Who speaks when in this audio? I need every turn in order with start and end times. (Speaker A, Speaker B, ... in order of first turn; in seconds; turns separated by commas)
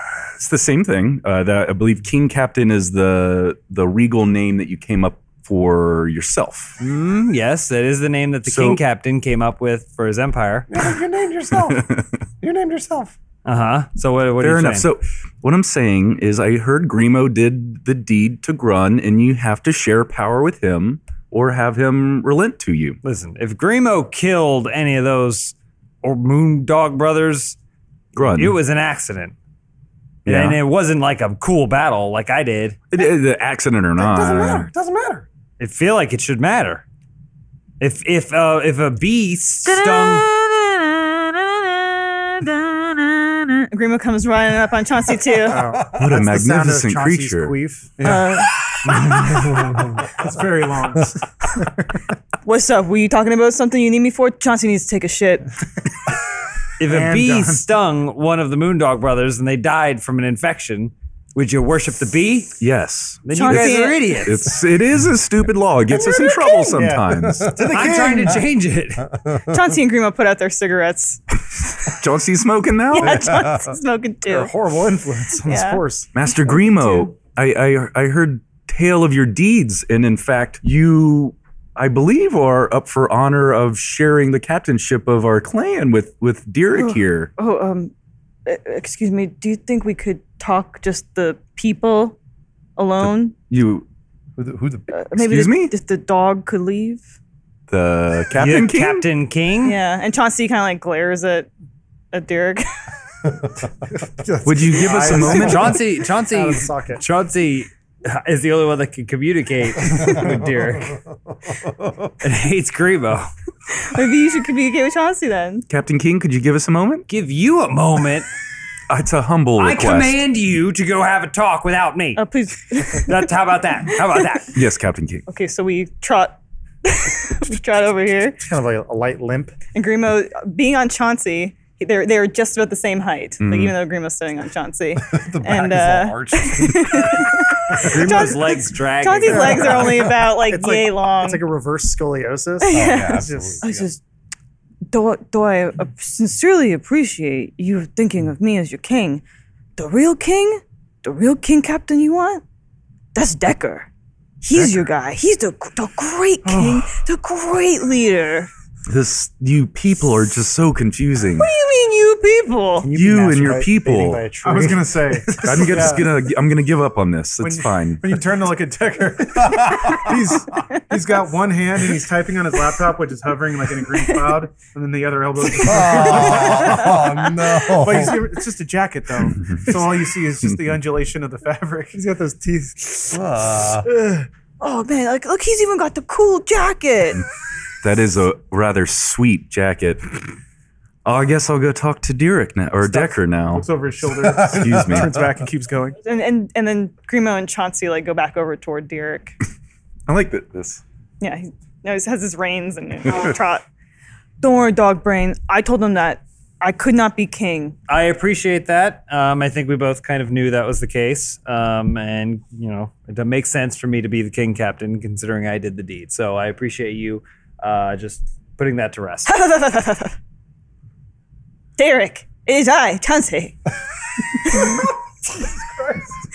Speaker A: 0.3-6.8, Speaker B: 6.8-10.7, Speaker A: 8.4-8.8, Speaker C: 10.7-11.9, Speaker A: 11.6-12.1, Speaker C: 12.4-13.2, Speaker B: 13.4-14.9, Speaker A: 14.4-23.0, Speaker B: 23.0-27.6, Speaker A: 28.1-28.6, Speaker B: 28.2-29.4, Speaker B: 30.2-32.8, Speaker A: 30.3-30.6, Speaker A: 32.9-34.7, Speaker C: 34.0-35.3, Speaker B: 35.6-36.8, Speaker B: 37.8-41.0, Speaker B: 41.6-43.5, Speaker D: 43.7-45.6, Speaker E: 45.4-47.9, Speaker C: 45.7-46.0, Speaker A: 45.9-47.6, Speaker F: 48.0-48.4, Speaker D: 48.0-48.5, Speaker B: 48.9-49.8, Speaker F: 50.0-51.2, Speaker D: 52.4-55.5, Speaker B: 56.8-62.6, Speaker E: 56.8-57.7, Speaker A: 62.6-67.5, Speaker B: 63.2-64.6, Speaker D: 63.4-64.2, Speaker E: 66.1-68.4, Speaker C: 67.1-68.4, Speaker B: 67.6-69.1, Speaker C: 69.1-69.7, Speaker D: 69.5-71.2, Speaker A: 71.8-73.4, Speaker D: 72.9-74.5, Speaker C: 73.0-73.8, Speaker E: 74.3-76.1, Speaker D: 75.5-75.8, Speaker A: 76.1-87.3, Speaker D: 76.7-77.1, Speaker D: 86.7-87.9, Speaker D: 88.5-92.2, Speaker D: 92.8-93.3, Speaker A: 93.0-93.9, Speaker C: 94.4-94.9, Speaker D: 94.9-97.0, Speaker A: 95.2-95.7, Speaker A: 97.7-99.1, Speaker B: 98.3-99.8, Speaker D: 99.6-101.5, Speaker D: 102.1-102.7, Speaker E: 104.0-107.0, Speaker A: 104.5-105.8, Speaker B: 105.1-111.0, Speaker C: 111.5-112.1, Speaker B: 112.2-113.3, Speaker D: 113.7-115.6, Speaker A: 115.7-117.1, Speaker B: 117.1-118.3, Speaker A: 118.9-120.2, Speaker B: 119.6-122.2, Speaker D: 122.2-123.3, Speaker B: 122.9-124.6, Speaker A: 124.5-125.3, Speaker D: 125.3-128.4, Speaker E: 128.4-129.6, Speaker D: 129.7-141.4, Speaker A: 133.4-133.7, Speaker C: 135.0-138.2, Speaker B: 137.8-139.9, Speaker E: 139.3-143.7, Speaker C: 139.8-140.1, Speaker D: 142.6-144.0, Speaker C: 142.7-143.8, Speaker D: 144.9-149.2, Speaker D: 149.8-152.4, Speaker D: 153.2-153.9, Speaker D: 154.4-158.5, Speaker F: 154.5-154.9, Speaker F: 156.5-156.8, Speaker A: 158.9-161.5, Speaker D: 161.4-162.9, Speaker E: 162.8-166.0, Speaker A: 162.9-164.2, Speaker F: 164.4-166.1, Speaker A: 165.4-168.1, Speaker F: 167.4-177.0, Speaker C: 169.4-170.4, Speaker C: 175.6-178.3, Speaker D: 175.8-177.6, Speaker F: 177.6-182.0, Speaker E: 181.9-183.2, Speaker C: 183.1-183.9, Speaker D: 184.6-187.2, Speaker A: 187.8-190.4, Speaker A: 191.1-193.7, Speaker F: 192.8-196.0, Speaker C: 194.1-195.2, Speaker A: 194.5-195.2, Speaker D: 196.0-199.4, Speaker A: 200.1-200.8, Speaker D: 201.2-203.7, Speaker D: 204.4-207.8, Speaker B: 207.9-219.3, Speaker D: 219.3-220.2, Speaker D: 221.8-223.6, Speaker D: 224.3-224.9, Speaker C: 225.4-226.1